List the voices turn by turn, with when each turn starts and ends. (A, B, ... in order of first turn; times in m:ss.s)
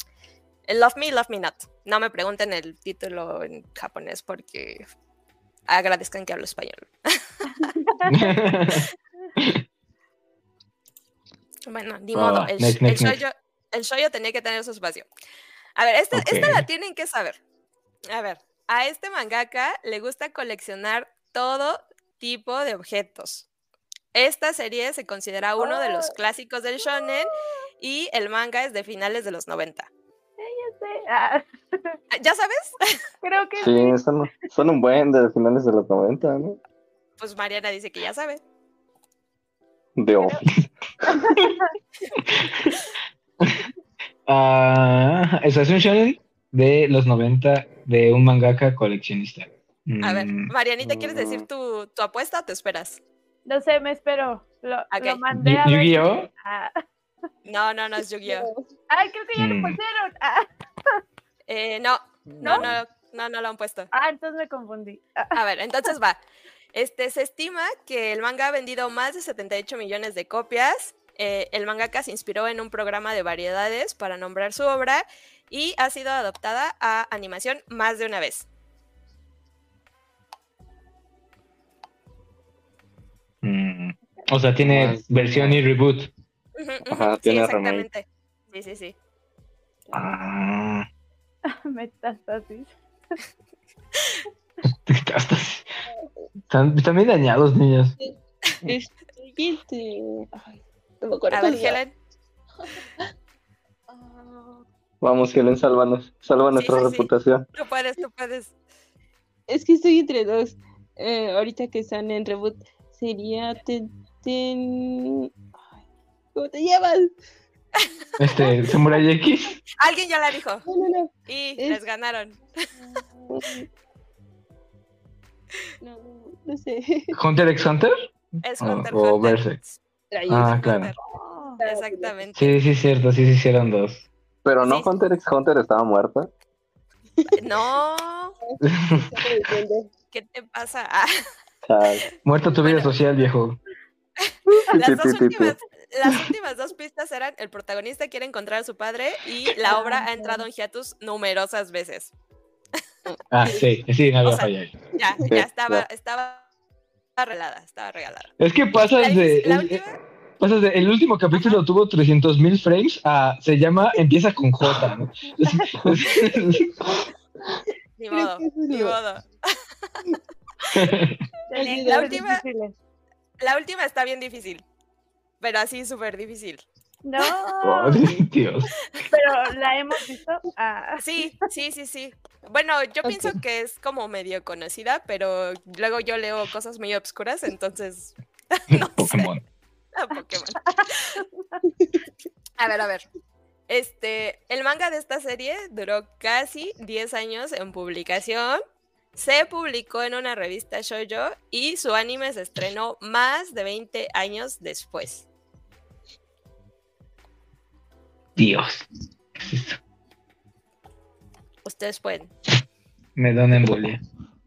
0:00.7-0:04.8 A
0:05.7-0:07.7 A
0:07.6-0:08.2 B
0:08.1-0:08.9 C
0:09.4-0:09.6 C
0:11.7-0:15.1 A
0:12.1-0:13.2 C
0:15.8-0:17.4 A
0:16.1-0:16.6 C
0:18.1-0:23.5 A
0:24.1-0:29.9 A
0:25.7-0:26.1 B
0:30.4-0:32.0 B
0:32.1-0:32.9 A
0:33.2-0:33.9 B
0:33.6-0:36.6 D
0:37.2-0:38.4 A
0:40.0-0:40.7 D
0:41.0-0:41.7 B
0:42.2-0:42.8 C
0:43.4-0:43.6 C
0:44.3-0:50.5 C
0:50.0-0:53.0 A
0:50.8-0:51.4 D
0:53.4-0:56.7 B
0:54.9-0:55.2 A
0:55.3-0:56.3 C
0:57.4-0:58.5 A
0:58.2-0:58.7 E
0:58.9-1:00.5 B
0:59.4-0:59.8 C
1:01.5-1:03.9 A
1:02.4-1:02.7 B
1:03.9-1:05.4 B
1:05.3-1:06.2 A
1:06.7-1:18.5 A
1:23.4-1:26.1 C
1:24.6-1:25.6 D
1:26.6-1:29.0 A
1:26.9-1:27.8 D
1:29.9-1:30.9 C
1:31.6-1:32.7 B
1:34.8-1:35.6 C
1:36.5-1:37.9 C
1:38.0-1:41.8 E
1:41.3-1:41.9 A
1:43.9-1:44.6 E
1:45.0-1:47.4 D
1:46.6-1:48.5 A
1:49.5-1:55.8 E
1:56.3-1:57.1 E
1:58.2-1:59.6 C
1:59.8-2:00.6 A
2:00.6-2:01.8 E
2:01.3-2:02.4 A
2:03.2-2:03.7 E
2:05.8-2:07.2 E
2:07.1-2:09.6 C
2:08.4-2:11.0 A
2:10.1-2:10.6 E
2:10.3-2:10.9 C
2:11.2-2:11.6 B
2:11.5-2:12.2 E
2:11.6-2:12.6 A
2:12.3-2:14.0 C
2:14.4-2:16.3 D
2:14.6-2:14.9 A
2:17.3-2:18.4 A
2:18.4-2:19.9 E
2:18.6-2:19.1 C
2:20.1-2:21.2 A
2:21.6-2:22.0 D
2:22.2-2:23.6 C
2:22.6-2:22.9 A
2:24.3-2:32.1 A
2:24.5-2:25.5 D
2:29.7-2:30.4 E
2:33.1-2:33.7 E
2:33.3-2:34.7 C
2:34.2-2:36.5 A
2:35.3-2:35.8 D
2:37.2-2:38.3 A
2:38.4-2:39.8 C
2:39.0-2:40.0 A
2:40.4-2:46.7 C
2:41.3-2:41.6 A
2:48.0-2:49.6 A
2:48.1-2:49.0 E
2:50.7-2:51.2 C
2:51.5-2:52.7 B
2:51.5-2:52.2 E
2:51.8-2:52.4 A
2:53.4-2:54.6 A
2:55.4-2:56.6 A
2:57.0-2:58.1 B
2:57.6-2:58.7 C
2:59.1-3:01.3 B
3:01.0-3:09.3 A
3:03.0-3:03.3 E
3:08.7-3:09.4 C
3:09.9-3:11.2 A
3:10.7-3:11.4 B
3:12.6-3:13.0 A
3:13.7-3:18.6 A
3:19.1-3:25.2 A
3:28.4-3:29.8 C
3:31.6-3:32.3 A
3:33.2-3:34.0 C